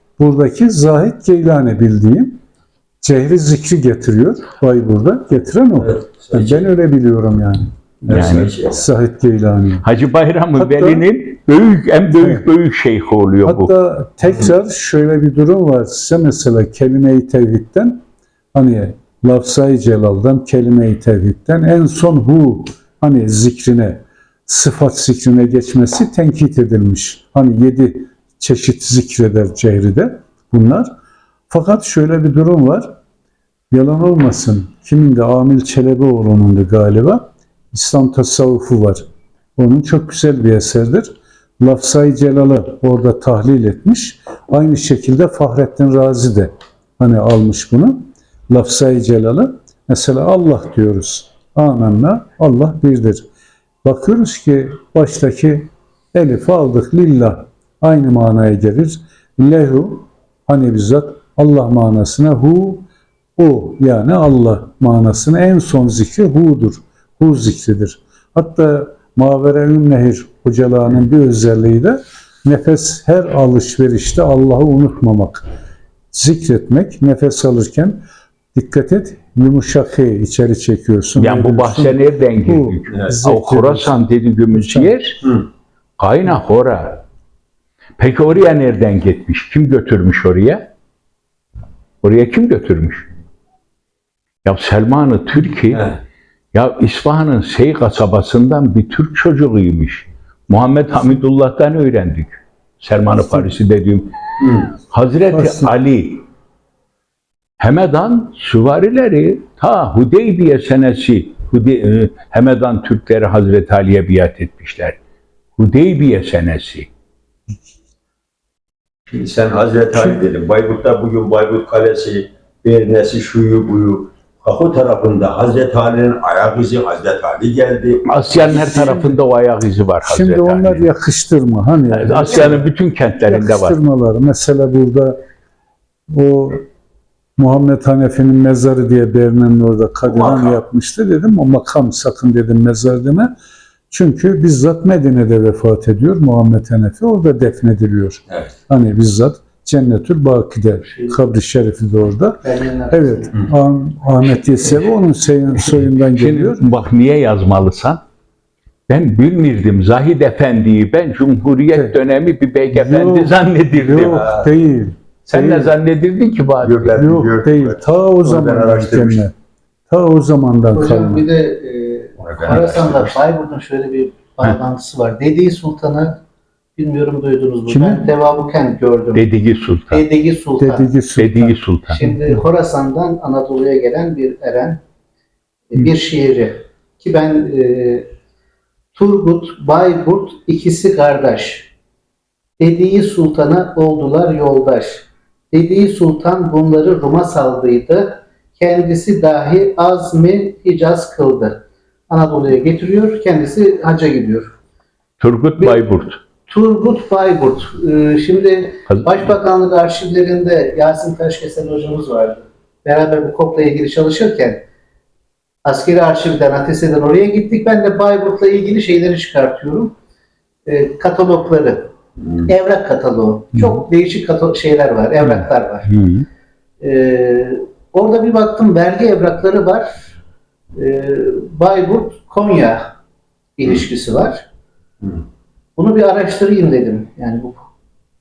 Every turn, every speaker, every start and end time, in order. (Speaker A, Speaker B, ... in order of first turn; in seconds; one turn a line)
Speaker A: 0.2-2.4
Speaker A: 3.0-9.8
Speaker B: 5.8-6.7
Speaker B: 8.1-8.8
Speaker C: 8.1-8.5
Speaker C: 9.8-13.7
Speaker A: 10.5-11.0
Speaker A: 12.2-12.4
Speaker A: 13.4-18.0
Speaker A: 18.5-30.9
Speaker A: 31.5-33.0
Speaker A: 33.7-39.0
Speaker A: 39.6-53.3
Speaker A: 53.8-62.9
Speaker A: 63.4-75.4
Speaker A: 76.1-78.0
Speaker A: 78.5-85.0
Speaker C: 81.2-85.3
Speaker C: 86.0-87.0
Speaker C: 88.0-90.7
Speaker C: 92.0-93.0
Speaker C: 94.4-95.9
Speaker C: 96.5-104.1
Speaker A: 103.2-103.4
Speaker B: 104.4-104.7
Speaker C: 104.9-106.2
Speaker A: 105.3-105.7
Speaker C: 107.6-115.0
Speaker C: 115.6-116.9
Speaker B: 119.1-128.9
Speaker A: 119.9-120.2
Speaker C: 128.1-130.8
Speaker A: 128.5-129.2
Speaker A: 130.0-132.6
Speaker C: 131.9-133.8
Speaker B: 132.3-132.5
Speaker A: 133.3-135.2
Speaker A: 136.1-136.6
Speaker A: 137.4-143.3
Speaker B: 140.0-140.6
Speaker A: 143.9-156.7
Speaker D: 150.8-151.1
Speaker D: 152.4-153.3
Speaker C: 155.7-158.0
Speaker C: 158.9-164.2
Speaker A: 162.7-165.7
Speaker B: 163.9-164.5
Speaker C: 165.2-167.0
Speaker B: 166.6-169.2
Speaker A: 166.9-169.3
Speaker A: 169.9-171.2
Speaker D: 170.7-176.2
Speaker B: 172.2-173.0
Speaker C: 172.4-173.1
Speaker D: 176.8-179.3
Speaker A: 177.7-178.1
Speaker C: 179.1-180.0
Speaker D: 179.9-180.9
Speaker A: 180.6-182.4
Speaker C: 181.2-182.0
Speaker D: 181.9-184.8
Speaker D: 185.7-188.1
Speaker D: 188.9-191.7
Speaker D: 192.6-204.5
Speaker C: 205.2-206.2
Speaker D: 206.5-214.6
Speaker D: 215.6-219.9
Speaker D: 220.7-225.9
Speaker C: 223.6-223.8
Speaker C: 225.2-226.2
Speaker D: 226.8-230.1
Speaker D: 230.7-232.9
Speaker D: 233.6-234.4
Speaker D: 235.8-237.6